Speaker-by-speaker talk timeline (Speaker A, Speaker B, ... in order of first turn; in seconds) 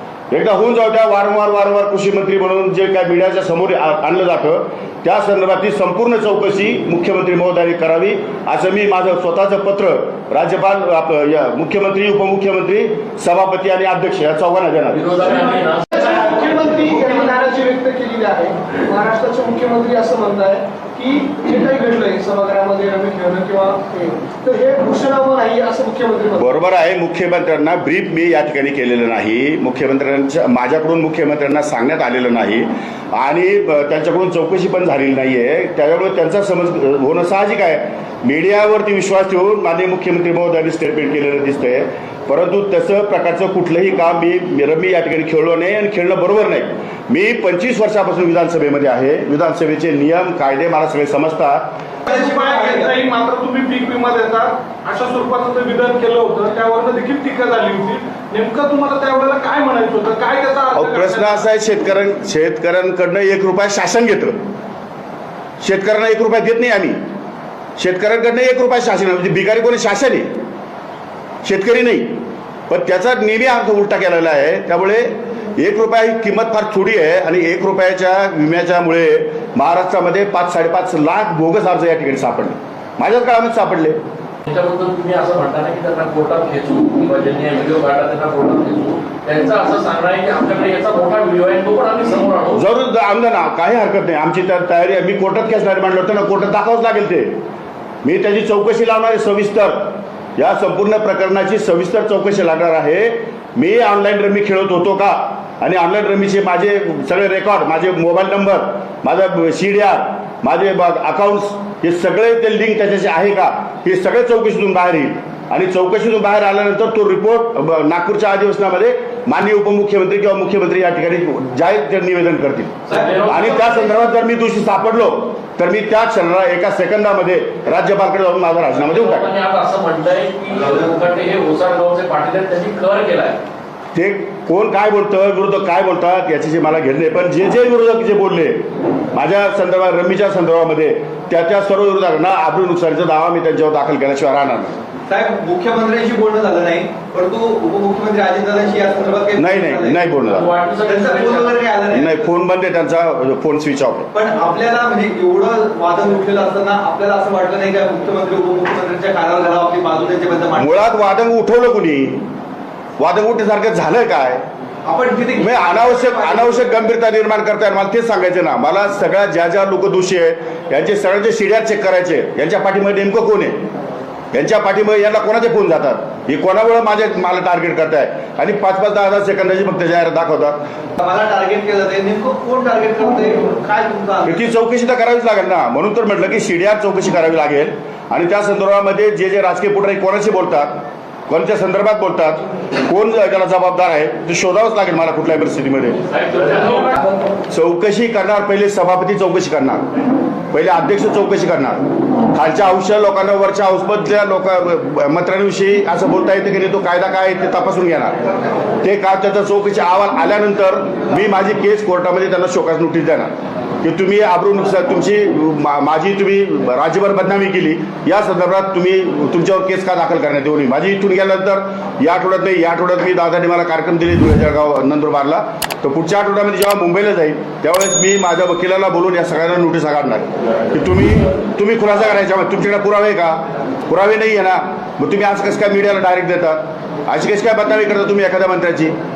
Speaker A: 0.3-15.0, 26.4-51.7, 60.8-64.4, 65.6-67.0, 67.8-70.3, 71.4-84.0, 92.5-97.3, 98.0-129.3, 133.9-144.8, 149.4-150.5, 151.9-154.1, 160.6-162.2, 163.0-164.4, 165.4-173.6, 174.3-180.6, 184.2-190.7, 191.3-196.0, 197.5-199.8, 200.5-208.2, 208.8-238.9
Speaker B: 14.9-16.6, 84.5-92.6, 122.9-124.0, 128.9-133.4, 150.3-151.5, 196.1-197.0
Speaker C: 15.9-26.5
Speaker D: 52.1-53.0, 145.1-150.0, 150.8-152.3, 154.1-160.8, 164.8-166.7, 181.0-184.4
Speaker E: 52.1-61.5